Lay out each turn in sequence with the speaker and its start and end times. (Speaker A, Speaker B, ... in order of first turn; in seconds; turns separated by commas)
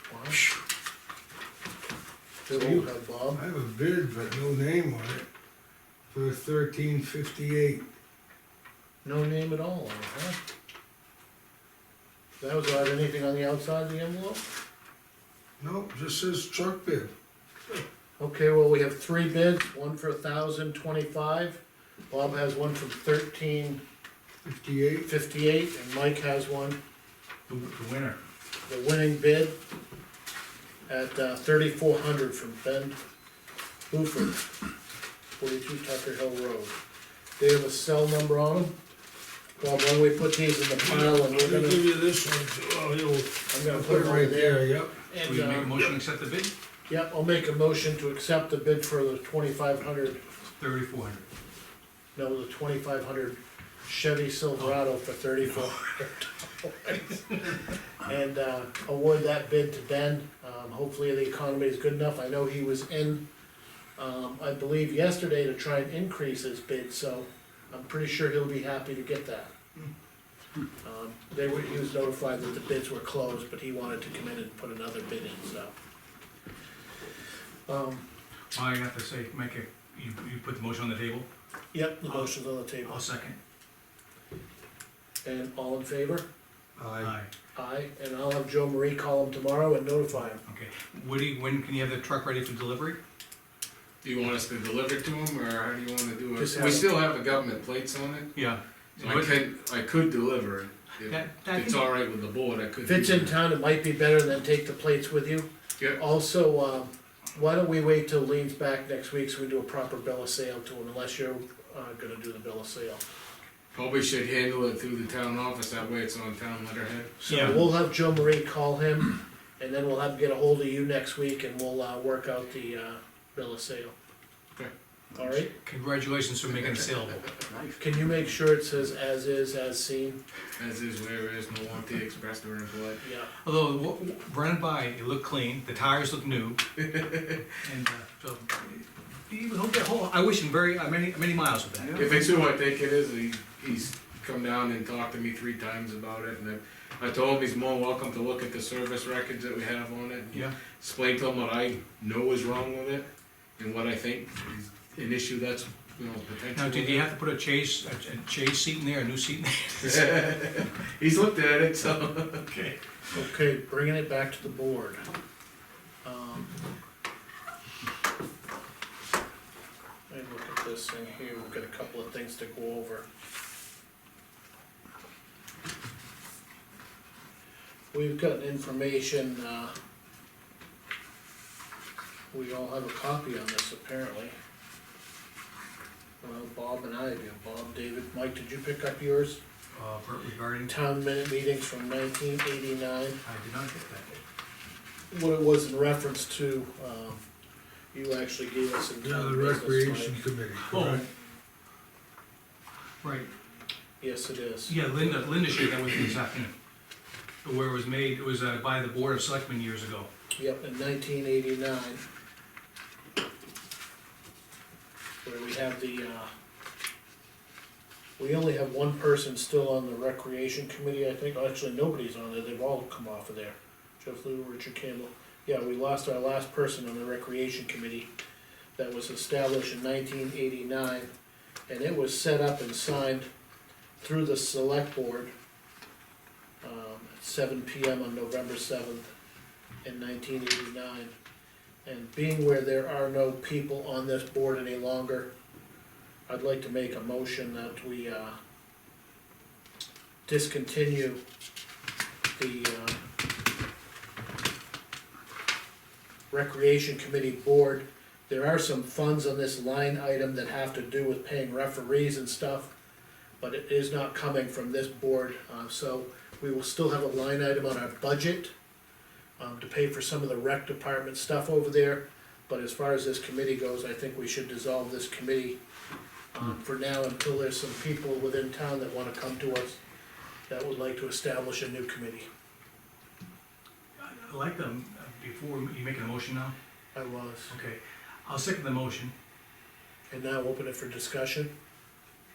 Speaker A: 0.1-0.4, Speaker A: 2.5-3.4, Speaker B: 2.5-5.3, Speaker B: 6.1-7.8, Speaker A: 9.0-10.4, Speaker A: 12.4-14.4, Speaker B: 15.6-17.1, Speaker A: 18.2-23.8, Speaker B: 24.4-25.1, Speaker A: 25.0-26.8, Speaker C: 27.5-28.2, Speaker A: 28.7-29.6, Speaker A: 30.9-33.0, Speaker A: 33.9-34.5, Speaker A: 35.4-36.8, Speaker A: 37.4-38.7, Speaker A: 39.6-41.8, Speaker B: 40.8-45.0, Speaker A: 43.5-45.9, Speaker C: 45.2-46.5, Speaker A: 46.9-50.2, Speaker C: 50.6-51.2, Speaker A: 52.1-63.2, Speaker A: 64.0-69.5, Speaker A: 70.8-75.7, Speaker A: 77.7-78.0, Speaker C: 78.5-81.3, Speaker A: 81.7-83.0, Speaker C: 82.8-83.4, Speaker A: 85.2-86.2, Speaker B: 86.8-87.1, Speaker C: 87.0-87.3, Speaker A: 87.5-90.4, Speaker C: 90.5-93.0, Speaker D: 94.0-98.3, Speaker A: 96.4-96.9, Speaker C: 98.3-99.3, Speaker D: 99.0-103.3, Speaker C: 101.0-101.8, Speaker A: 102.8-113.0, Speaker D: 113.7-117.1, Speaker A: 117.2-123.9, Speaker C: 117.2-117.6, Speaker A: 125.1-125.5, Speaker C: 125.4-127.3, Speaker A: 127.8-130.2, Speaker D: 130.6-133.0, Speaker A: 133.0-133.3, Speaker C: 133.4-136.6, Speaker D: 136.8-137.4, Speaker C: 137.6-142.1, Speaker D: 141.9-157.1, Speaker C: 156.5-160.0, Speaker D: 159.8-162.5, Speaker C: 162.5-162.8, Speaker A: 163.1-165.0, Speaker A: 166.0-166.6, Speaker A: 170.1-173.1, Speaker A: 177.9-179.7, Speaker A: 182.3-184.3, Speaker A: 186.2-189.4, Speaker C: 189.7-190.7, Speaker A: 190.7-193.2, Speaker C: 193.2-194.2, Speaker A: 195.1-197.2, Speaker A: 197.9-200.1, Speaker B: 199.0-201.1, Speaker C: 200.6-201.1, Speaker C: 203.0-203.3, Speaker A: 204.0-205.3, Speaker C: 204.7-206.5, Speaker C: 207.4-210.1, Speaker A: 210.3-212.0, Speaker A: 215.2-216.3, Speaker A: 218.2-228.1, Speaker A: 228.8-231.1, Speaker A: 231.7-233.3, Speaker A: 234.0-235.3, Speaker A: 236.6-239.1, Speaker A: 239.8-241.1, Speaker A: 241.8-245.3, Speaker A: 246.3-248.3, Speaker A: 250.2-251.2, Speaker A: 252.3-253.0, Speaker A: 256.3-262.7, Speaker A: 263.4-268.5, Speaker A: 269.4-275.6, Speaker A: 276.3-279.8, Speaker A: 280.5-282.3, Speaker C: 284.0-286.5, Speaker A: 286.9-287.5, Speaker C: 287.5-289.1, Speaker A: 290.1-291.5